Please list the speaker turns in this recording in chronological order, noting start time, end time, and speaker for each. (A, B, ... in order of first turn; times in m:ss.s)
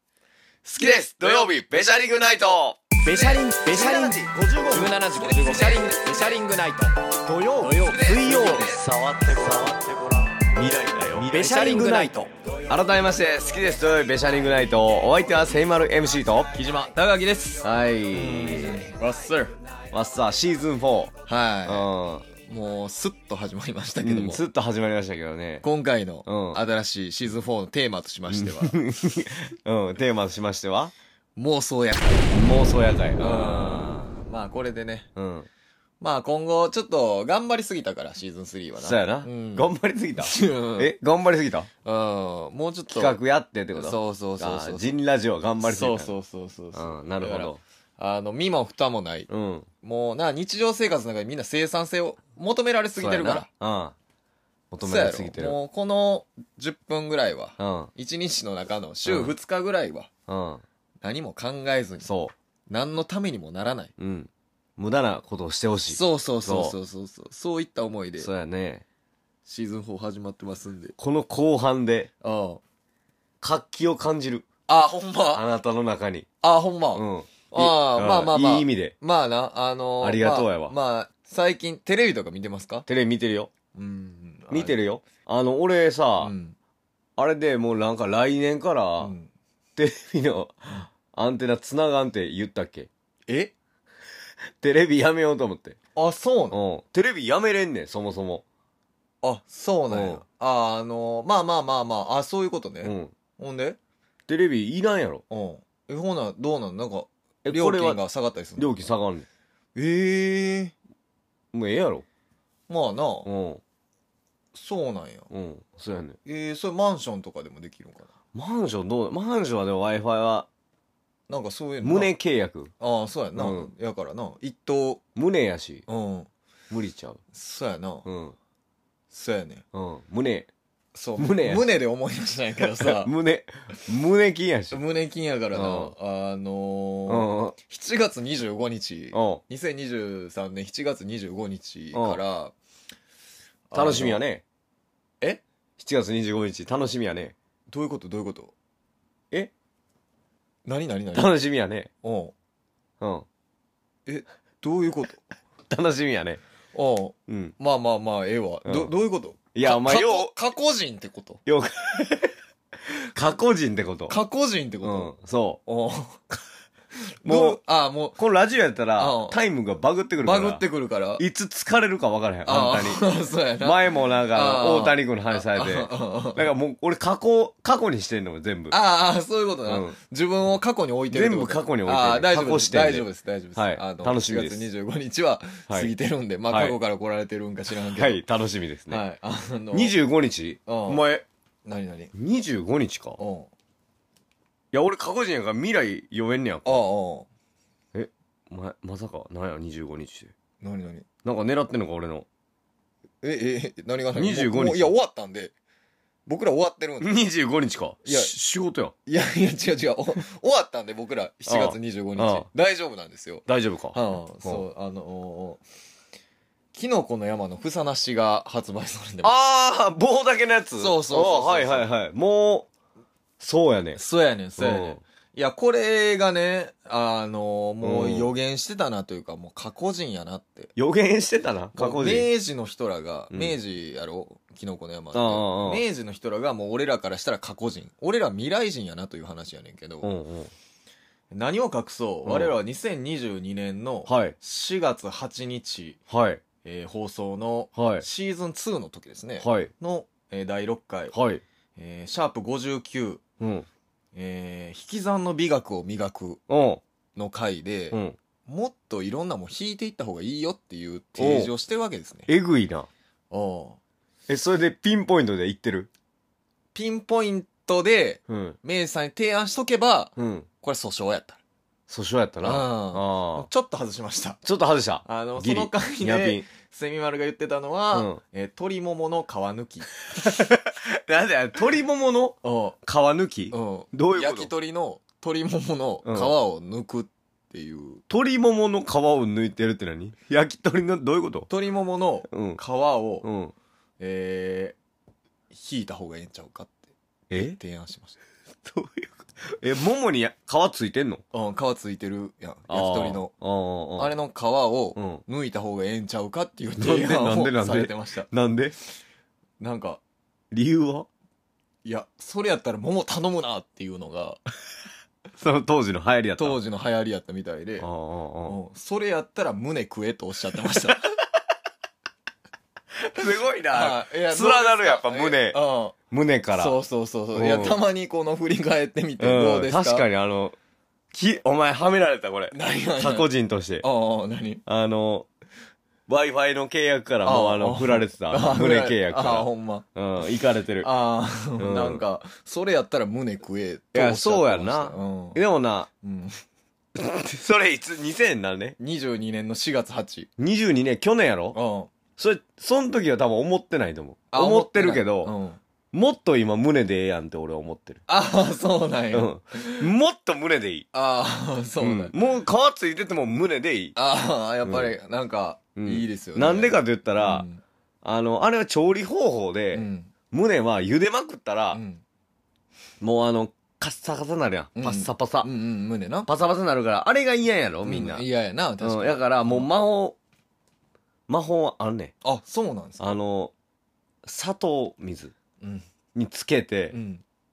0:00.6-0:01.5 A
0:00.8-0:03.0 B
0:03.0-0:06.9 C
0:03.0-0:04.0 A
0:03.6-0:05.7 B
0:04.7-0:05.9 A
0:07.2-0:08.8 B
0:07.6-0:09.6 A
0:07.6-0:10.1 C
0:10.5-0:12.3 A
0:11.0-0:12.1 B
0:11.2-0:12.2 C
0:12.7-0:16.5 B
0:16.5-0:19.5 A
0:17.6-0:18.8 B
0:19.9-0:21.1 B
0:21.2-0:24.4 A
0:21.6-0:22.3 B
0:24.0-0:25.6 B
0:25.6-0:28.8 A
0:26.2-0:26.6 B
0:28.3-0:30.9 B
0:31.4-0:32.4 A
0:32.3-0:34.1 B
0:33.2-0:35.1 A
0:35.2-0:35.5 B
0:36.0-0:40.9 A
0:38.8-0:41.7 B
0:41.8-0:43.2 A
0:42.9-0:46.1 B
0:43.7-0:45.0 A
0:45.6-0:49.3 A
0:46.7-0:47.6 B
0:49.3-0:49.7 B
0:49.8-0:53.5 A
0:53.0-0:54.0 B
0:54.7-0:55.6 B
0:54.8-1:00.1 A
0:57.6-0:57.9 B
0:59.0-0:59.3 B
1:00.3-1:00.6 B
1:01.0-1:02.1 A
1:02.0-1:02.3 B
1:02.7-1:03.9 A
1:04.0-1:06.8 B
1:05.9-1:08.3 A
1:08.2-1:08.8 B
1:09.4-1:10.9 A
1:11.0-1:12.1 B
1:12.2-1:12.6 A
1:13.4-1:14.4 B
1:14.7-1:15.4 A
1:15.3-1:16.2 B
1:16.4-1:22.8 A
1:16.9-1:18.9 B
1:20.0-1:20.8 B
1:22.8-1:23.5 B
1:23.7-1:24.8 A
1:24.5-1:26.3 B
1:26.2-1:26.6 A
1:27.2-1:29.1 B
1:29.0-1:29.3 A
1:29.8-1:32.9 B
1:33.3-1:33.5 A
1:34.6-1:35.8 B
1:36.0-1:36.6 A
1:36.5-1:38.4 B
1:39.2-1:43.8 A
1:39.9-1:40.2 B
1:42.8-1:43.1 B
1:44.3-1:45.2 B
1:45.3-1:48.7 A
1:47.4-1:48.0 B
1:48.6-1:49.3 B
1:49.7-1:50.7 A
1:51.5-1:52.0 B
1:52.7-1:53.3 A
1:53.2-1:53.6 B
1:54.5-1:55.3 A
1:55.3-1:56.2 B
1:56.2-1:58.1 A
1:58.3-2:00.5 B
2:01.3-2:02.1 A
2:01.8-2:02.7 B
2:02.8-2:05.0 A
2:03.4-2:03.7 B
2:05.2-2:05.8 B
2:05.9-2:06.3 A
2:06.7-2:07.2 B
2:07.3-2:08.0 A
2:08.0-2:08.4 B
2:09.1-2:09.6 A
2:09.7-2:10.5 B
2:10.9-2:13.1 A
2:11.2-2:11.7 B
2:12.7-2:14.8 B
2:14.7-2:22.5 A
2:15.5-2:15.9 B
2:17.1-2:17.5 B
2:19.1-2:19.4 B
2:21.9-2:22.2 B
2:23.7-2:24.2 A
2:23.7-2:24.4 B
2:25.8-2:27.3 B
2:27.7-2:28.5 A
2:30.6-2:31.3 A
2:31.1-2:31.9 B
2:32.0-2:32.3 A
2:33.0-2:33.2 B
2:34.1-2:35.2 A
2:35.7-2:36.4 B
2:36.7-2:41.4 A
2:37.3-2:37.5 B
2:38.6-2:38.9 B
2:39.5-2:40.3 B
2:41.4-2:42.3 B
2:42.9-2:44.2 B
2:44.1-2:45.1 A
2:44.8-2:45.6 B
2:45.6-2:46.3 A
2:47.2-2:48.2 A
2:47.2-2:47.6 B
2:48.2-2:50.6 B
2:49.0-2:49.4 A
2:50.2-2:51.2 A
2:51.2-2:53.0 B
2:52.4-2:56.5 A
2:53.6-2:58.8 B
2:58.7-3:08.2 A
2:59.6-3:00.0 B
3:01.1-3:04.6 B
3:06.5-3:06.8 B
3:07.8-3:09.0 B
3:08.9-3:09.9 A
3:09.7-3:11.2 B
3:10.7-3:11.0 A
3:11.6-3:12.1 A
3:12.1-3:13.2 B
3:13.2-3:13.5 A
3:14.7-3:16.8 B
3:16.6-3:17.3 A
3:17.9-3:20.3 B
3:20.6-3:21.1 A
3:21.2-3:22.3 B
3:23.2-3:25.5 A
3:24.1-3:24.9 B
3:26.2-3:27.2 A
3:27.0-3:28.9 B
3:28.0-3:28.3 A
3:29.0-3:35.6 A
3:31.5-3:32.4 B
3:33.4-3:34.6 B
3:36.7-3:39.3 A
3:39.2-3:42.7 B
3:40.8-3:41.9 A
3:43.4-3:44.0 B
3:43.9-3:50.7 A
3:44.6-3:45.0 B
3:47.8-3:48.3 B
3:50.8-3:52.3 B
3:51.7-4:00.1 A
3:53.3-3:53.6 B
3:55.1-3:55.8 B
4:00.0-4:00.5 B
4:01.3-4:06.0 A
4:02.2-4:02.5 B
4:04.0-4:04.4 B
4:06.1-4:06.4 B
4:06.6-4:11.2 A
4:07.7-4:08.0 B
4:09.4-4:09.7 B
4:11.1-4:11.4 B
4:11.8-4:13.2 A
4:13.4-4:13.7 B
4:14.1-4:16.4 A
4:16.5-4:16.8 B
4:17.2-4:22.3 A
4:17.9-4:18.2 B
4:21.2-4:21.5 B
4:22.3-4:22.9 B
4:23.3-4:23.8 A
4:24.3-4:25.9 B
4:26.7-4:31.4 A
4:28.3-4:28.6 B
4:30.2-4:30.5 B
4:31.9-4:33.5 B
4:32.4-4:34.4 A
4:34.4-4:36.4 B
4:35.0-4:39.9 A
4:37.9-4:38.2 B
4:40.1-4:44.5 B
4:42.4-4:42.8 A
4:43.5-4:48.0 A
4:46.0-4:46.3 B
4:48.1-4:51.5 B
4:51.5-4:53.3 A
4:52.3-4:52.6 B
4:53.2-4:53.5 B
4:54.0-4:54.8 A
4:55.5-4:58.2 A
4:57.3-4:57.6 B
4:58.6-5:01.2 B
5:01.3-5:03.3 A
5:02.7-5:04.1 B
5:04.0-5:08.3 A
5:05.0-5:05.2 B
5:06.8-5:08.8 B
5:09.6-5:10.0 A
5:10.5-5:11.1 B
5:11.8-5:14.4 A
5:15.4-5:16.6 B
5:16.4-5:17.9 A
5:17.8-5:18.6 B
5:18.4-5:21.1 A
5:23.1-5:26.8 B
5:23.6-5:26.0 A
5:26.5-5:30.1 A
5:27.3-5:27.8 B
5:29.2-5:30.6 B
5:31.1-5:33.8 B
5:32.5-5:33.3 A
5:33.8-5:34.6 A
5:34.6-5:35.3 B
5:36.1-5:40.9 B
5:37.2-5:39.8 A
5:40.8-5:45.4 A
5:41.6-5:42.0 B
5:43.9-5:45.9 B
5:46.0-5:46.4 A
5:46.9-5:48.8 B
5:48.8-5:50.3 A
5:50.4-5:51.6 B
5:51.5-5:51.9 A
5:52.2-5:55.3 B
5:54.3-5:55.6 A
5:55.9-5:58.0 B
5:58.1-5:59.9 A
5:59.1-6:00.9 B
6:00.9-6:02.2 A
6:01.8-6:04.0 B
6:04.0-6:07.6 A
6:04.6-6:04.9 B
6:05.8-6:07.5 B
6:08.0-6:11.8 B
6:09.7-6:10.1 A
6:11.7-6:12.0 A
6:13.0-6:15.5 B
6:14.8-6:16.3 A
6:16.3-6:18.2 B
6:17.8-6:19.7 A
6:18.8-6:20.2 B
6:21.3-6:22.1 B
6:22.2-6:23.2 A
6:23.0-6:23.5 B
6:24.2-6:25.3 B
6:26.1-6:26.9 B
6:26.9-6:27.2 A